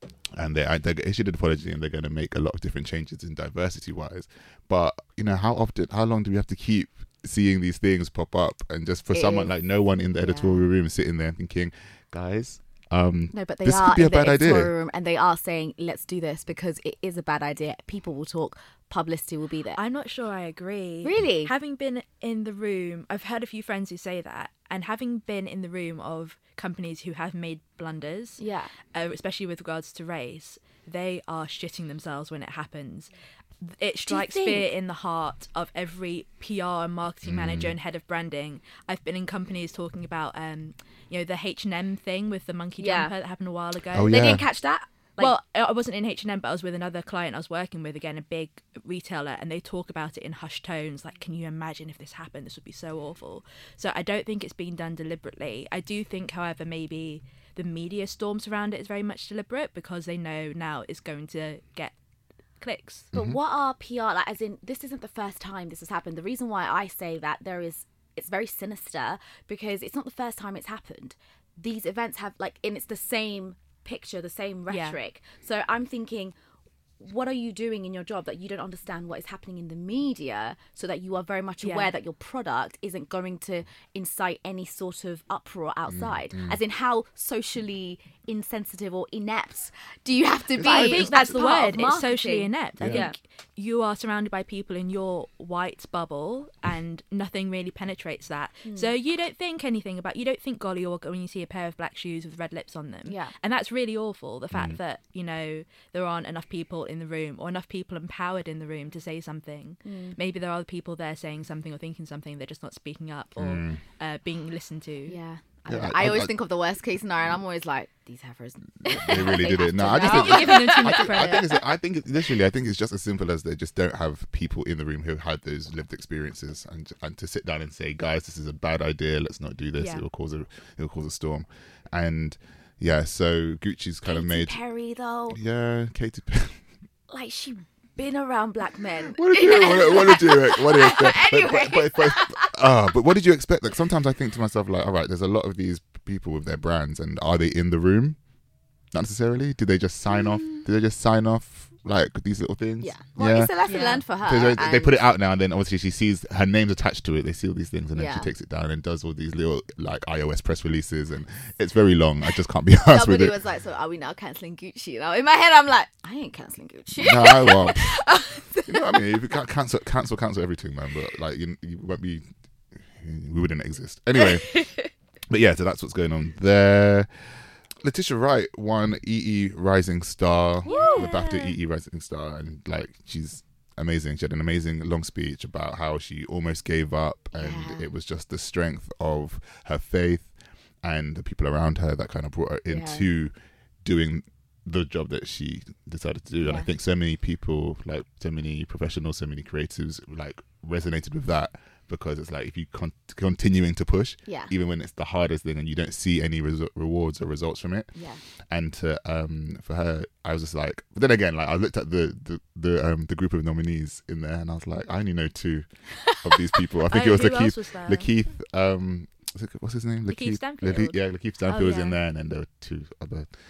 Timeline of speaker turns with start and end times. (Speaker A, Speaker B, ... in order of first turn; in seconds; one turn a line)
Speaker A: 0.3-14.7
Speaker B: 9.1-9.5
Speaker B: 10.2-10.7
Speaker B: 13.3-19.8
Speaker C: 19.8-28.4
Speaker B: 21.0-21.5
Speaker B: 28.4-28.7
Speaker C: 28.9-44.4
Speaker B: 34.1-34.7
Speaker A: 37.2-37.8
Speaker B: 42.8-43.1
Speaker A: 43.9-44.5
Speaker B: 44.1-45.4
Speaker C: 45.2-61.9
Speaker C: 62.6-63.1
Speaker A: 63.1-63.4
Speaker B: 63.1-76.3
Speaker C: 74.7-75.0
Speaker B: 77.0-93.2
Speaker C: 81.6-81.9
Speaker A: 85.9-86.6
Speaker A: 90.6-91.3
Speaker C: 90.6-115.2
Speaker A: 92.8-93.1
Speaker B: 98.7-98.9
Speaker B: 103.1-103.3
Speaker A: 104.5-104.8
Speaker B: 109.8-110.2
Speaker A: 113.4-113.8
Speaker B: 115.1-121.5
Speaker A: 115.7-116.3
Speaker A: 118.8-134.6
Speaker C: 119.1-121.5
Speaker B: 134.1-135.4
Speaker A: 135.3-136.6
Speaker B: 137.1-142.5
Speaker A: 139.2-148.2
Speaker A: 148.9-153.6
Speaker B: 150.1-150.7
Speaker B: 152.8-155.0
Speaker C: 153.7-154.0
Speaker A: 154.2-163.4
Speaker B: 157.9-158.3
Speaker B: 162.8-169.1
Speaker A: 167.0-168.0
Speaker A: 168.7-172.2
Speaker A: 172.9-174.7
Speaker B: 174.5-174.9
Speaker A: 175.3-177.1
Speaker A: 177.8-190.3
Speaker B: 180.7-181.5
Speaker C: 180.7-181.2
Speaker B: 187.3-187.9
Speaker A: 190.8-207.9
Speaker B: 192.7-193.1
Speaker B: 196.4-196.7
Speaker B: 204.3-204.5
Speaker B: 208.0-208.2
Speaker A: 208.5-215.7
Speaker A: 216.2-223.3
Speaker C: 216.9-218.1
Speaker C: 220.1-222.0